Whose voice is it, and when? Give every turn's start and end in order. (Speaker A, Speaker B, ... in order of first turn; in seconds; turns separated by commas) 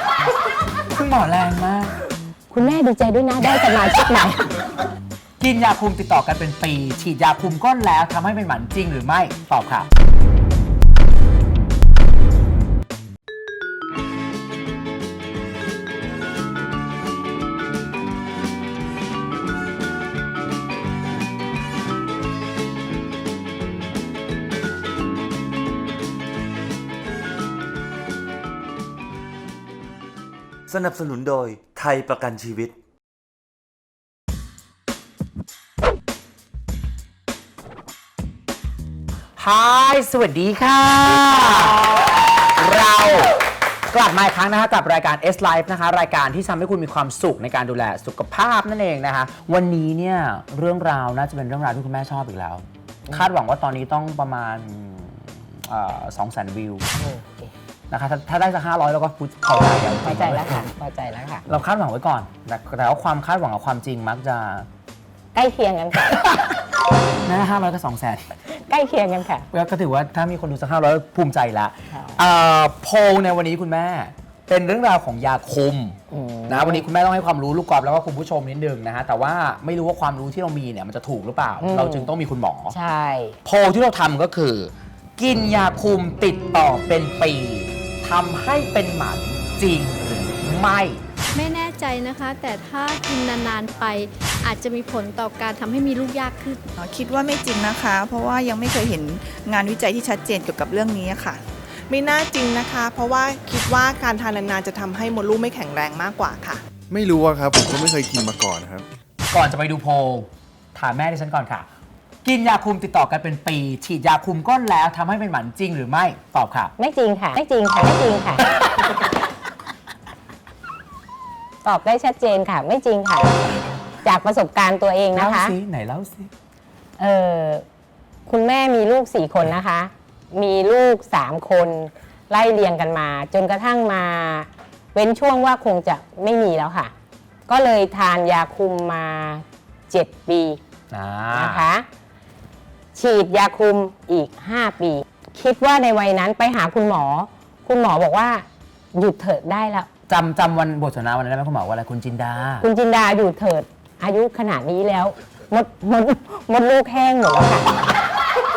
Speaker A: 0.9-2.0, Speaker B: 2.5-4.6, Speaker A: 5.4-9.9, Speaker C: 30.7-32.8, Speaker A: 39.4-42.0, Speaker A: 42.5-43.3, Speaker A: 43.9-56.8, Speaker B: 56.9-57.5, Speaker A: 57.9-60.7, Speaker B: 60.0-61.4, Speaker A: 61.5-64.7, Speaker B: 65.3-66.4, Speaker A: 67.2-68.2, Speaker B: 68.5-69.5, Speaker A: 69.5-76.0, Speaker B: 76.1-76.8, Speaker A: 76.5-82.8, Speaker B: 81.6-82.1, Speaker B: 82.7-83.4, Speaker A: 83.4-91.0, Speaker D: 91.3-96.6, Speaker E: 96.8-101.4, Speaker F: 101.9-106.6, Speaker G: 106.9-108.8, Speaker A: 109.3-111.7, Speaker A: 112.2-116.7, Speaker B: 116.8-118.4, Speaker B: 121.6-123.5, Speaker B: 124.0-125.5, Speaker A: 125.1-126.3, Speaker B: 127.0-127.6, Speaker B: 128.2-136.9, Speaker B: 137.5-140.6, Speaker A: 140.9-141.6, Speaker B: 141.3-141.8, Speaker B: 142.9-149.9, Speaker A: 150.1-152.7, Speaker B: 152.6-157.7